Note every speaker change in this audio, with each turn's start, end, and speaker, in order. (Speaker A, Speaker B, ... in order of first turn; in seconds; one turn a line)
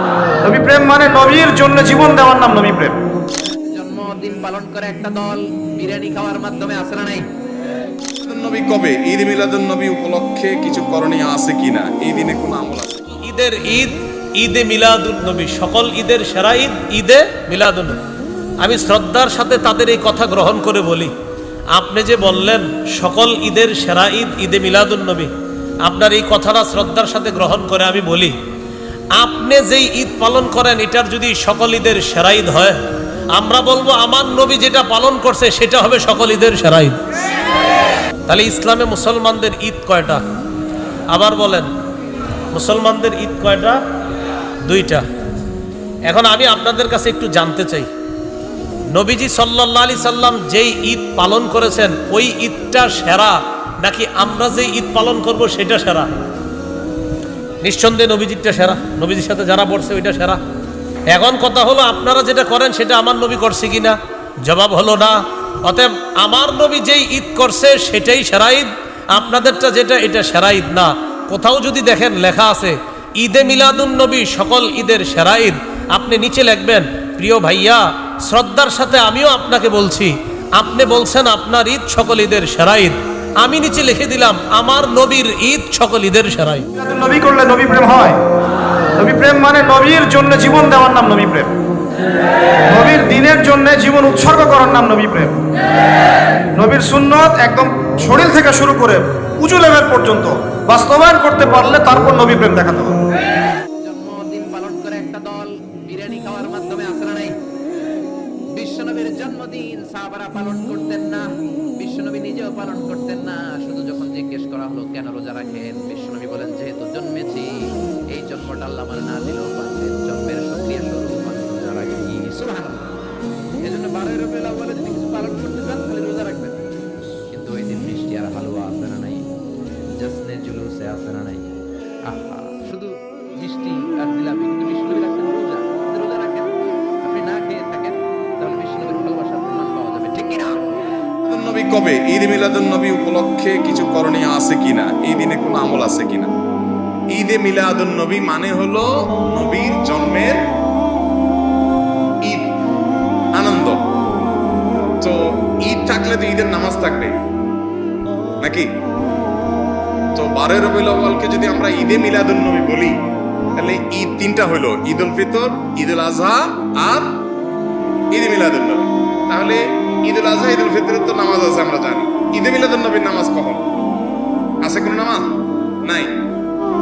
Speaker A: 0.4-3.0
Speaker B: 3.7-7.3
Speaker C: 8.2-13.1
Speaker D: 13.2-18.0
Speaker D: 18.6-21.1
Speaker D: 21.8-25.3
Speaker D: 25.9-28.3
Speaker D: 29.2-32.8
Speaker D: 33.3-37.0
Speaker D: 38.3-40.2
Speaker D: 41.1-41.7
Speaker D: 42.5-43.8
Speaker D: 44.6-45.0
Speaker D: 46.1-47.9
Speaker D: 48.9-56.1
Speaker D: 57.6-60.4
Speaker D: 61.1-86.7
Speaker A: 86.8-88.2
Speaker A: 89.0-91.5
Speaker A: 92.7-95.4
Speaker A: 96.6-103.0
Speaker B: 103.8-107.4
Speaker B: 108.5-111.3
Speaker B: 111.8-122.9
Speaker B: 123.6-126.6
Speaker B: 127.3-129.3
Speaker B: 130.0-131.5
Speaker B: 132.1-140.6
Speaker C: 141.2-146.3
Speaker C: 147.1-150.4
Speaker C: 153.3-153.8
Speaker C: 155.0-157.1
Speaker C: 158.4-158.7
Speaker C: 160.2-163.0
Speaker C: 163.6-167.1
Speaker C: 168.1-173.7
Speaker C: 174.6-175.3
Speaker C: 175.8-176.1